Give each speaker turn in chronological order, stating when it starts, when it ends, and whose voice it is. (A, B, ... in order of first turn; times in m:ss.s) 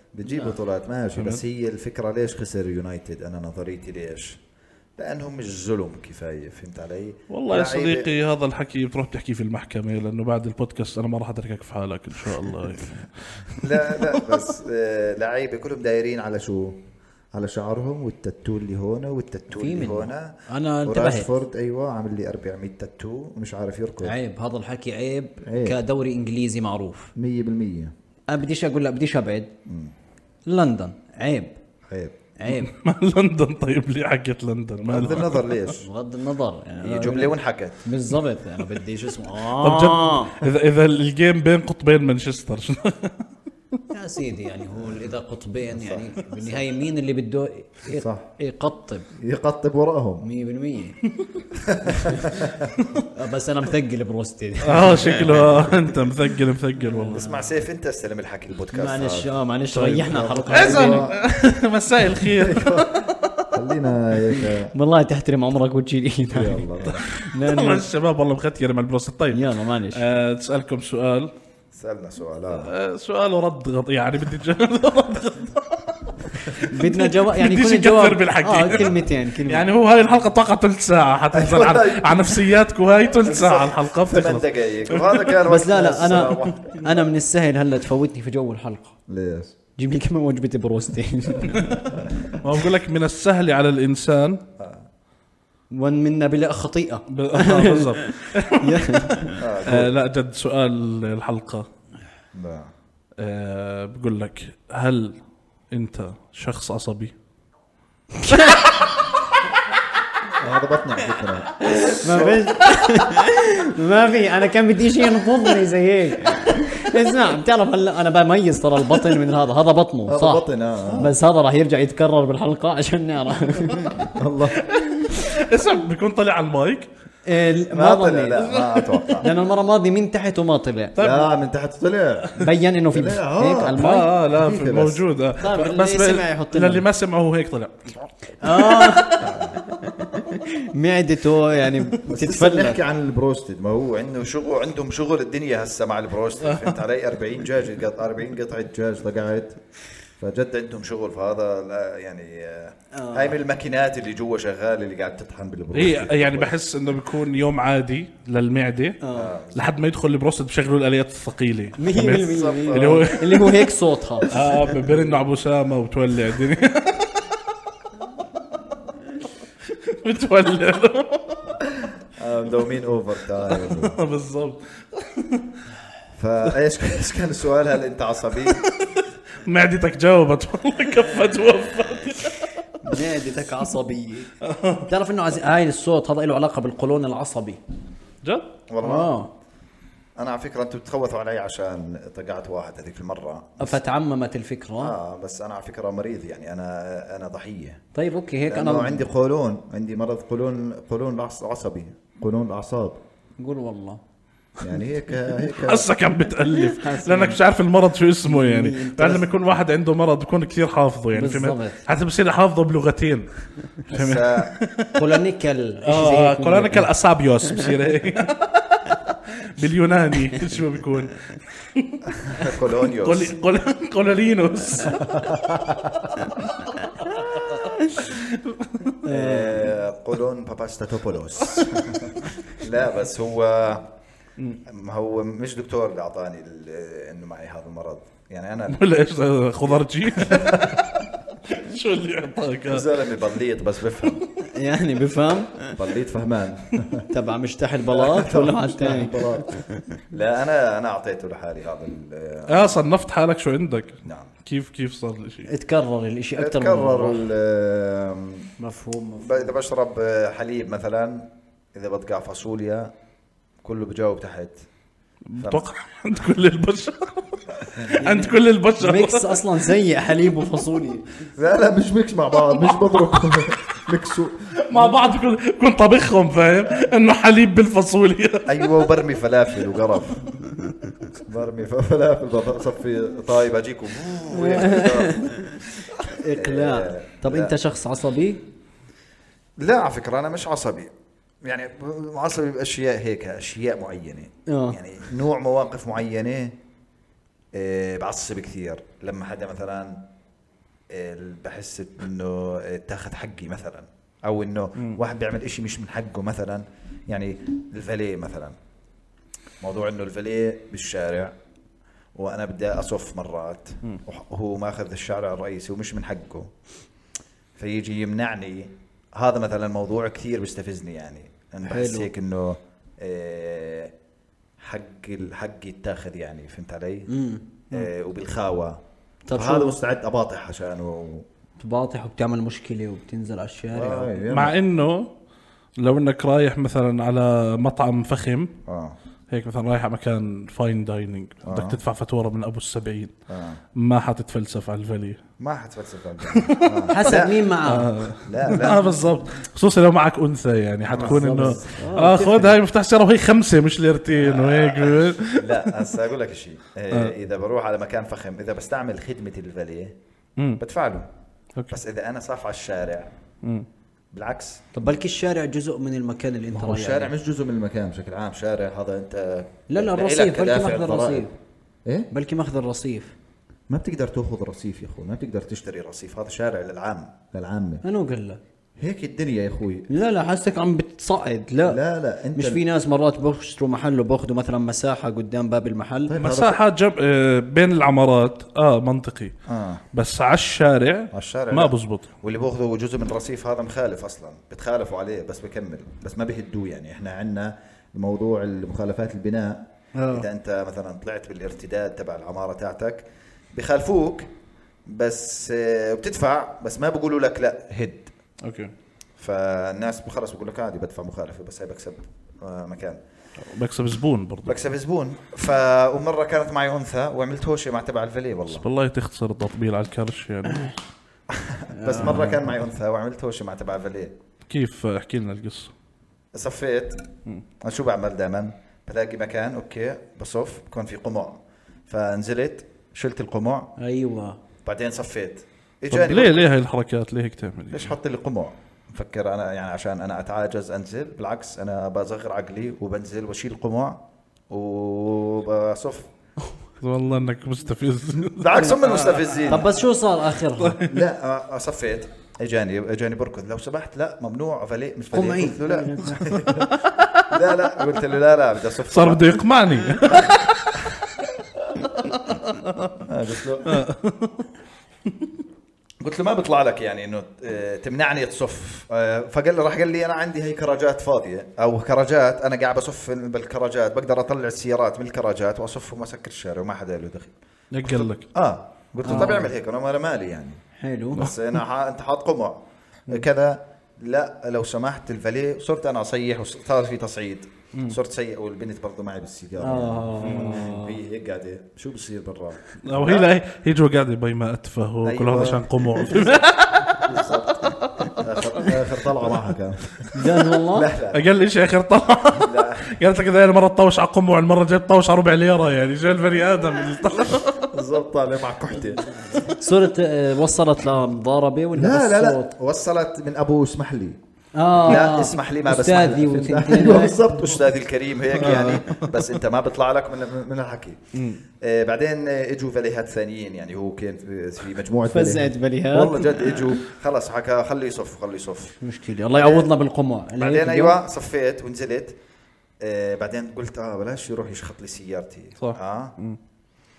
0:00.1-0:04.4 A
0:01.2-0:01.4 B
0:05.0-0:08.1 A
0:07.3-0:14.4 B
0:13.5-0:16.8 A
0:17.3-0:24.2 A
0:19.5-0:21.3 C
0:24.0-0:27.1 C
0:25.4-0:25.8 A
0:27.2-0:27.9 A
0:28.3-0:29.5 C
0:29.7-0:29.9 A
0:30.5-0:31.6 C
0:31.9-0:32.2 A
0:32.4-0:32.7 C
0:32.5-0:35.4 B
0:34.8-0:35.9 A
0:35.8-0:40.4 C
0:36.8-0:37.8 A
0:39.5-0:43.2 B
0:43.9-0:49.1 C
0:45.7-0:46.6 A
0:47.9-0:48.3 A
0:49.2-0:50.2 A
0:50.2-0:51.0 C
0:51.5-0:52.8 A
0:51.9-0:52.5 C
0:53.0-0:55.6 C
0:54.6-0:57.2 B
0:55.6-0:56.0 A
0:56.8-0:57.4 C
0:57.1-1:01.2 A
0:58.7-1:01.1 C
1:00.5-1:03.5 B
1:02.2-1:04.7 A
1:04.7-1:07.9 C
1:06.3-1:07.0 A
1:06.8-1:11.3 B
1:09.3-1:10.0 C
1:11.7-1:12.7 A
1:12.6-1:25.4 B
1:16.5-1:19.7 C
1:21.3-1:22.6 A
1:23.2-1:27.1 A
1:25.5-1:29.0 C
1:29.1-1:29.6 A
1:29.8-1:31.8 C
1:31.5-1:34.4 B
1:31.9-1:32.4 A
1:34.6-1:34.8 A
1:35.7-1:39.4 C
1:37.1-1:41.7 B
1:39.4-1:39.9 A
1:42.3-1:42.7 A
1:43.2-1:45.2 B
1:45.7-1:47.1 B
1:48.1-1:48.7 C
1:48.3-1:49.0 B
1:50.3-1:52.5 A
1:51.7-2:04.1 C
2:00.1-2:01.1 A
2:03.9-2:04.7 A
2:04.6-2:06.9 B
2:07.3-2:08.5 C
2:07.7-2:09.3 A
2:08.4-2:09.2 B
2:09.2-2:11.0 C
2:11.0-2:11.3 B
2:11.0-2:15.0 A
2:12.4-2:14.1 C
2:13.8-2:17.9 B
2:15.4-2:16.8 C
2:18.4-2:22.8 C
2:18.4-2:19.3 B
2:19.2-2:19.6 A
2:22.0-2:29.6 A
2:26.4-2:26.8 B
2:30.2-2:36.5 A
2:32.9-2:33.4 C
2:35.7-2:39.0 B
2:39.0-2:39.3 C
2:39.1-2:39.7 A
2:39.5-2:43.6 B
2:41.8-2:44.3 C
2:42.2-2:43.1 A
2:44.2-2:47.3 B
2:49.8-2:51.5 B
2:52.2-2:54.0 A
2:53.5-2:55.5 B
2:56.2-2:58.6 A
2:58.5-3:02.5 B
3:02.8-3:04.3 C
3:04.4-3:04.9 B
3:04.8-3:07.6 C
3:08.2-3:08.5 B
3:08.7-3:09.1 A
3:08.8-3:09.3 C
3:10.2-3:13.8 A
3:13.6-3:15.0 C
3:14.8-3:17.8 A
3:18.0-3:19.0 C
3:18.5-3:23.0 A
3:23.4-3:24.0 C
3:24.6-3:25.9 A
3:25.5-3:33.3 B
3:26.5-3:27.4 C
3:28.2-3:29.3 C
3:31.1-3:31.8 C
3:33.9-3:34.5 A
3:33.9-3:35.0 B
3:35.0-3:36.9 C
3:35.8-3:45.3 B
3:42.3-3:43.4 A
3:45.0-3:45.9 A
3:46.6-3:47.2 B
3:48.0-3:49.0 B
3:49.0-3:49.7 C
3:49.1-3:53.9 A
3:54.7-3:58.8 A
3:58.7-4:02.9 B
4:00.1-4:00.8 A
4:02.7-4:04.2 A
4:04.4-4:05.8 C
4:05.8-4:07.1 A
4:07.1-4:09.8 C
4:07.9-4:09.5 A
4:10.1-4:12.7 A
4:12.5-4:15.5 B
4:14.0-4:14.3 A
4:15.5-4:17.3 C
4:16.4-4:18.5 A
4:18.6-4:19.5 C
4:19.2-4:22.9 A
4:23.6-4:24.6 A
4:25.3-4:29.4 B
4:27.8-4:31.1 C
4:31.4-4:34.9 A
4:32.6-4:33.2 B
4:34.6-4:38.6 B
4:38.5-4:40.2 A
4:41.2-4:45.4 A
4:44.3-4:45.3 C
4:46.0-4:48.4 C
4:46.2-4:47.6 A
4:49.6-4:50.9 A
4:51.4-4:56.6 A
4:54.5-4:54.8 C
4:57.5-5:00.0 A
5:00.9-5:08.6 A
5:09.6-5:11.4 A
5:12.2-5:16.5 A
5:17.6-5:23.9 A
5:21.6-5:22.1 C
5:24.6-5:27.1 A
5:27.1-5:27.9 C
5:27.7-5:28.8 A
5:29.3-5:29.8 C
5:29.3-5:31.2 A
5:31.6-5:34.2 C
5:33.7-5:34.6 A
5:34.3-5:35.1 B
5:35.8-5:38.6 B
5:38.7-5:39.0 A
5:39.3-5:43.1 B
5:41.4-5:41.8 A
5:43.3-5:43.6 A
5:43.8-5:45.2 B
5:45.4-5:47.4 A
5:46.2-5:55.7 B
5:46.9-5:48.0 C
5:48.2-5:49.0 A
5:50.9-5:51.4 A
5:51.0-5:52.5 C
5:54.2-6:00.0 A
6:00.6-6:01.1 A
6:01.7-6:03.1 A
6:04.1-6:04.9 A
6:04.7-6:07.1 C
6:06.5-6:11.3 A
6:09.7-6:11.3 C
6:12.1-6:13.1 C
6:13.7-6:17.8 A
6:17.8-6:18.4 C
6:18.8-6:19.9 A
6:19.9-6:21.8 C
6:21.6-6:22.6 A
6:22.4-6:26.1 C
6:26.1-6:26.6 A
6:26.2-6:29.4 B
6:29.5-6:29.8 A
6:29.9-6:32.1 B
6:31.1-6:44.3 A
6:40.0-6:40.3 C
6:44.9-6:48.1 A
6:48.4-6:48.7 B
6:49.2-6:53.0 A
6:53.5-6:54.6 B
6:54.5-6:58.7 A
6:58.5-7:00.7 B
7:01.3-7:04.2 A
7:01.7-7:02.5 C
7:04.5-7:05.7 B
7:06.3-7:07.0 A
7:07.6-7:13.7 A
7:13.8-7:14.4 C
7:14.6-7:16.4 A
7:15.9-7:17.9 B
7:17.7-7:26.1 A
7:26.8-7:29.4 B
7:28.1-7:29.7 A
7:29.4-7:30.8 C
7:30.6-7:31.0 B
7:30.8-7:36.8 A
7:35.1-7:36.4 C
7:36.5-7:37.3 B
7:37.3-7:40.2 A
7:38.9-7:41.1 B
7:41.8-7:43.0 B
7:43.0-7:43.8 A
7:43.6-7:44.5 B
7:46.0-8:00.6 A
7:57.7-7:58.2 B
7:59.0-7:59.5 C
8:00.8-8:01.3 C
8:01.2-8:02.6 A
8:03.1-8:13.3 A
8:09.6-8:11.0 C
8:10.2-8:10.6 B
8:12.8-8:17.1 B
8:15.0-8:21.2 A
8:17.8-8:18.2 B
8:20.1-8:20.9 C
8:21.1-8:27.7 B
8:22.4-8:22.9 A
8:27.7-8:29.4 A
8:29.4-8:32.5 C
8:31.8-8:34.2 A
8:34.6-8:37.2 C
8:34.8-8:41.0 A
8:38.4-8:39.1 B
8:41.2-8:41.4 B
8:41.6-8:48.8 A
8:45.1-8:46.6 C
8:48.8-8:51.0 C
8:49.3-8:49.7 A
8:50.4-8:52.2 A
8:52.8-8:56.2 A
8:55.6-8:56.4 B